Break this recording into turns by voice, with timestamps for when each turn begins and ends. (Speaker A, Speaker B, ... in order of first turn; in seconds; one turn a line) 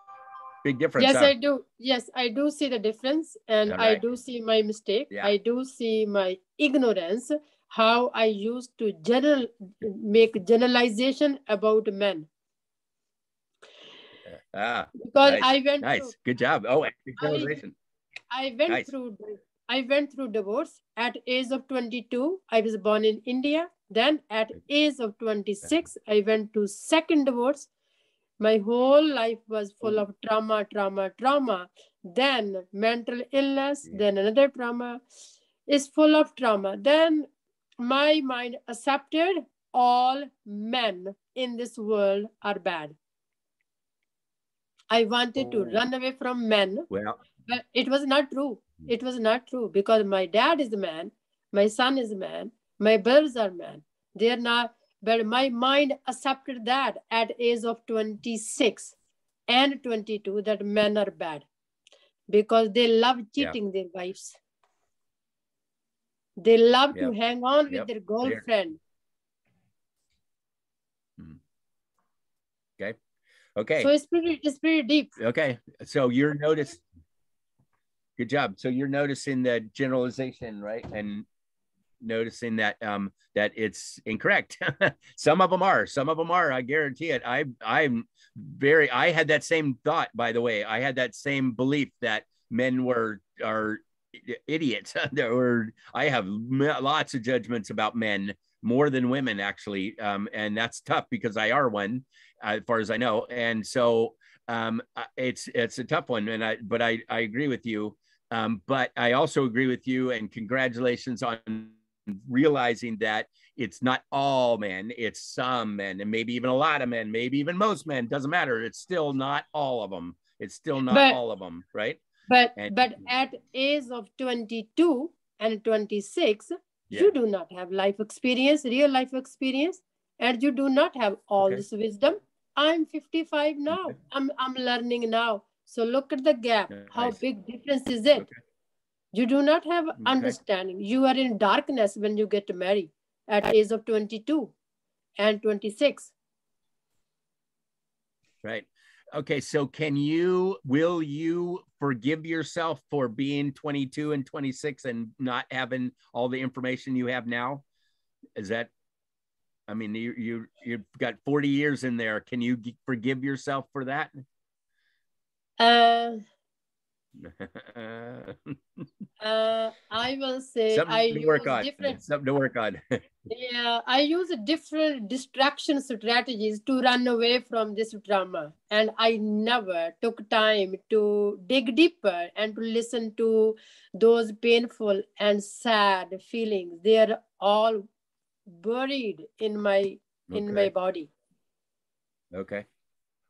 Speaker A: 0.6-1.3
Speaker B: 1.0-12.3
Speaker A: 3.7-4.0
Speaker A: 14.3-17.8
Speaker B: 15.0-16.1
Speaker B: 17.2-17.6
Speaker B: 18.3-27.7
Speaker B: 28.4-35.0
Speaker B: 35.7-37.3
Speaker B: 37.8-43.0
Speaker B: 44.9-46.9
Speaker A: 45.4-45.8
Speaker A: 46.9-47.2
Speaker B: 47.5-58.9
Speaker B: 59.5-61.5
Speaker B: 62.3-64.4
Speaker B: 66.4-68.8
Speaker A: 67.7-68.4
Speaker A: 73.6-73.9
Speaker B: 73.8-75.1
Speaker A: 75.2-76.8
Speaker A: 78.2-81.3
Speaker A: 82.0-122.0
Speaker B: 120.9-121.2
Speaker B: 122.3-138.3
Speaker A: 131.4-131.6
Speaker A: 133.7-134.0
Speaker A: 136.7-137.2
Speaker B: 139.1-144.5
Speaker A: 140.0-140.3
Speaker B: 145.2-146.1
Speaker A: 148.4-157.6
Speaker A: 158.4-158.7
Speaker A: 159.7-164.1
Speaker B: 165.6-166.2
Speaker A: 167.2-168.6
Speaker B: 169.2-172.0
Speaker A: 170.7-173.1
Speaker B: 173.3-187.9
Speaker B: 188.5-191.1
Speaker A: 190.3-190.7
Speaker A: 192.3-192.7